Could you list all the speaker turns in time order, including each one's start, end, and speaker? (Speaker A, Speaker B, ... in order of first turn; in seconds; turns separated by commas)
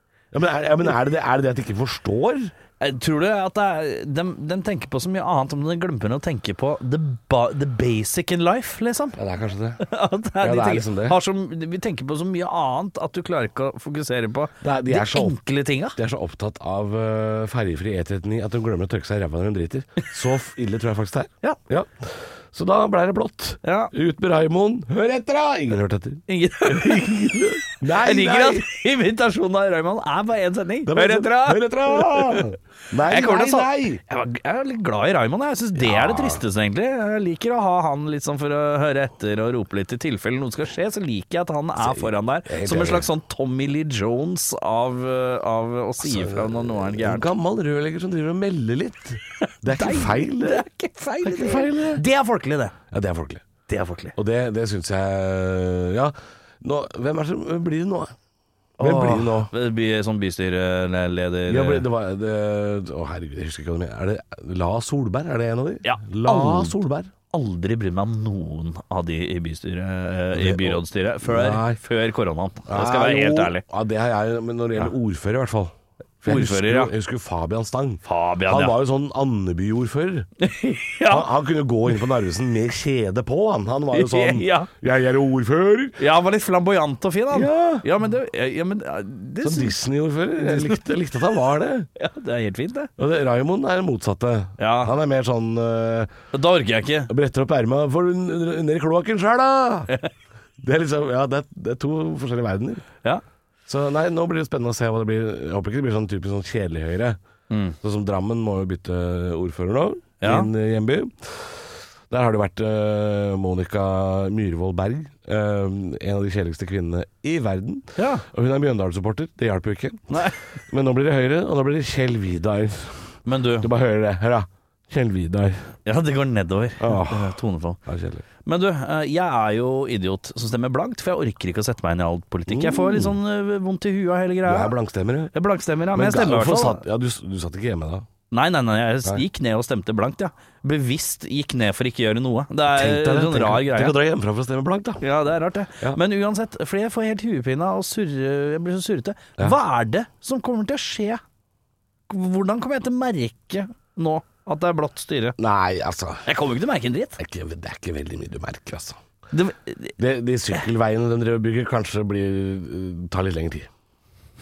Speaker A: 0.3-2.5, Speaker B: 2.8-9.2, Speaker A: 9.1-9.8, Speaker B: 9.8-16.0, Speaker A: 10.4-11.2, Speaker A: 14.6-15.4, Speaker A: 15.9-28.6, Speaker B: 23.6-23.9, Speaker B: 26.3-32.5, Speaker A: 30.9-34.0, Speaker B: 33.1-47.3, Speaker A: 35.7-36.4, Speaker A: 41.8-43.1, Speaker A: 46.0-50.6, Speaker B: 49.7-52.7, Speaker A: 51.2-52.0, Speaker A: 52.9-53.5, Speaker B: 53.7-54.1, Speaker A: 54.1-58.1, Speaker A: 58.8-59.5, Speaker B: 58.8-61.8, Speaker A: 61.5-67.1, Speaker B: 65.8-66.7, Speaker B: 67.3-73.6, Speaker A: 70.3-71.8, Speaker A: 72.7-80.3, Speaker B: 76.2-76.9, Speaker B: 78.0-78.7, Speaker B: 80.4-81.3, Speaker A: 81.1-86.0, Speaker B: 83.9-84.7, Speaker B: 86.0-89.7, Speaker A: 87.3-87.8, Speaker A: 89.4-91.9, Speaker B: 90.4-90.8, Speaker B: 92.0-92.9, Speaker A: 93.0-96.1, Speaker B: 94.6-94.9, Speaker B: 96.3-97.1, Speaker A: 97.1-99.9, Speaker A: 100.6-102.8, Speaker A: 103.7-107.2, Speaker B: 107.5-107.8, Speaker A: 107.8-125.7, Speaker B: 110.2-110.5, Speaker B: 118.0-118.2, Speaker B: 120.1-120.5, Speaker B: 123.2-123.7, Speaker B: 125.8-127.8, Speaker A: 126.8-128.2, Speaker B: 128.4-134.7, Speaker A: 132.5-133.1, Speaker A: 134.4-135.3, Speaker B: 135.3-136.8, Speaker A: 135.9-138.1, Speaker B: 138.3-143.9, Speaker A: 142.7-145.0, Speaker B: 145.0-151.2, Speaker B: 152.1-155.4, Speaker A: 155.4-156.2, Speaker B: 156.2-157.2, Speaker A: 157.2-159.0, Speaker B: 159.3-159.9, Speaker A: 160.0-163.7